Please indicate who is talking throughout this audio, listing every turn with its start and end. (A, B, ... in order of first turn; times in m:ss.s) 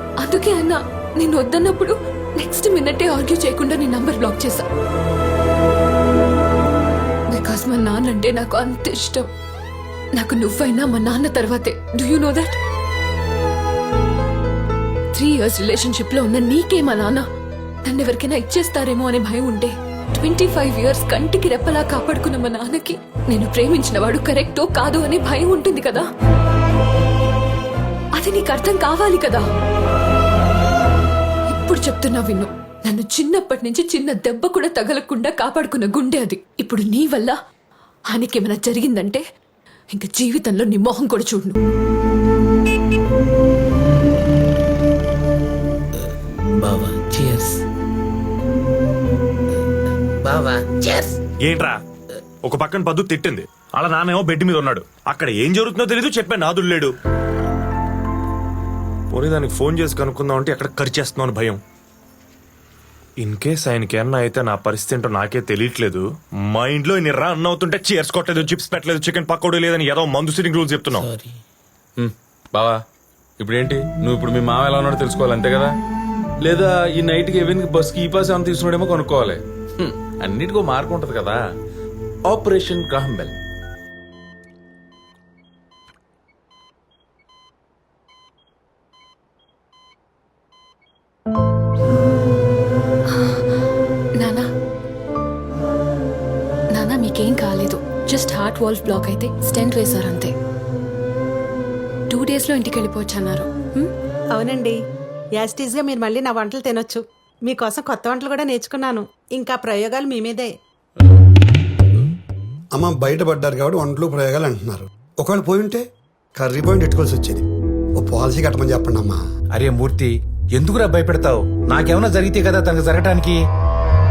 0:00.2-0:04.6 A
0:07.3-0:09.3 A
0:10.1-0:12.6 A
0:15.1-0:17.2 A
0:17.8-0:26.0 A
0:28.2-0:29.4 A
0:31.5-0:37.3 A
0:38.1-0:39.2 A
0:39.9-0:41.6 A
0:46.6-0:47.6 B
0:50.2-0:51.1 B
0:51.4-0:51.8 C
0:52.4-0:56.9 C
0:59.1-1:01.6 C
1:03.2-1:11.1 C
1:10.9-1:11.3 B
1:13.4-1:15.7 D
1:16.4-1:19.4 D
1:20.2-1:21.4 D
1:22.3-1:23.3 D
1:33.2-1:33.4 A
1:34.2-1:34.5 A
1:36.7-1:40.3 A
1:42.1-1:43.9 A
1:44.3-1:44.8 E
1:45.4-1:50.5 E
1:52.7-1:55.8 F
1:56.4-1:57.4 F
1:58.0-1:59.2 F
1:59.5-2:03.4 G